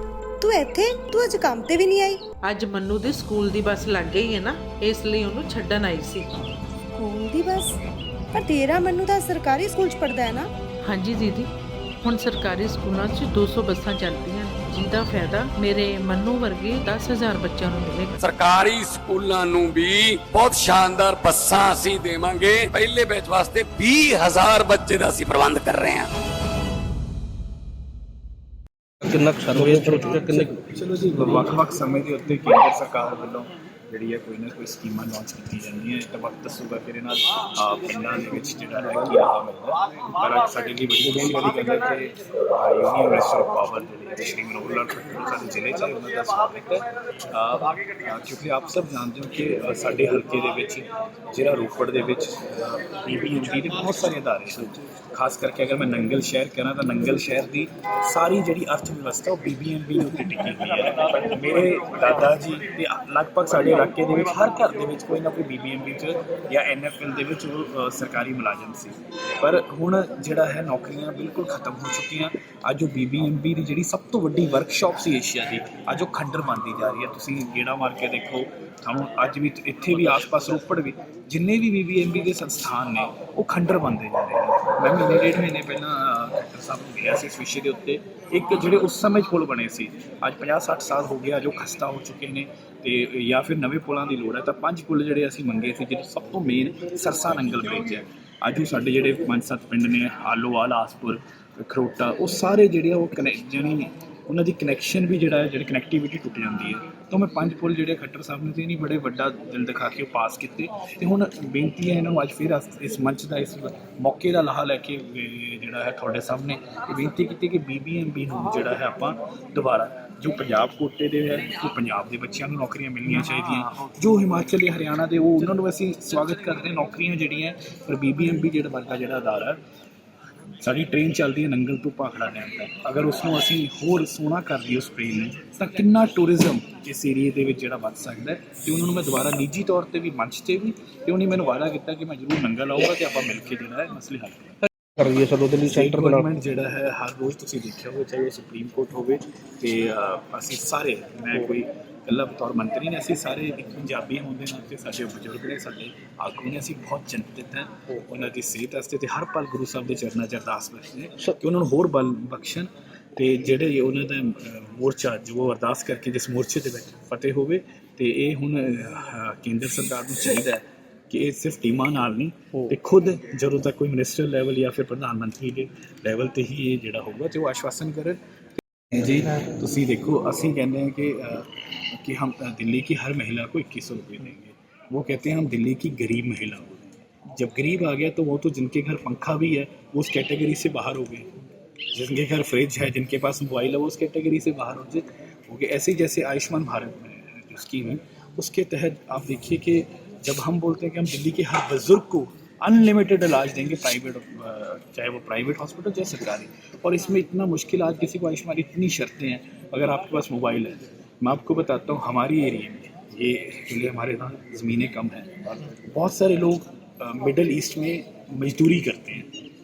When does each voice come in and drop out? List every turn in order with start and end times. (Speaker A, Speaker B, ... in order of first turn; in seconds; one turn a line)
Speaker A: 0.4-2.2
Speaker B: 2.5-6.3
Speaker A: 7.0-7.7
Speaker A: 8.3-10.5
Speaker B: 10.8-11.5
Speaker B: 12.0-18.2
Speaker C: 18.2-26.1
Speaker D: 29.0-30.5
Speaker E: 29.5-129.6
Speaker E: 130.6-144.6
Speaker D: 145.0-146.2
Speaker E: 145.6-191.3
Speaker E: 191.9-219.3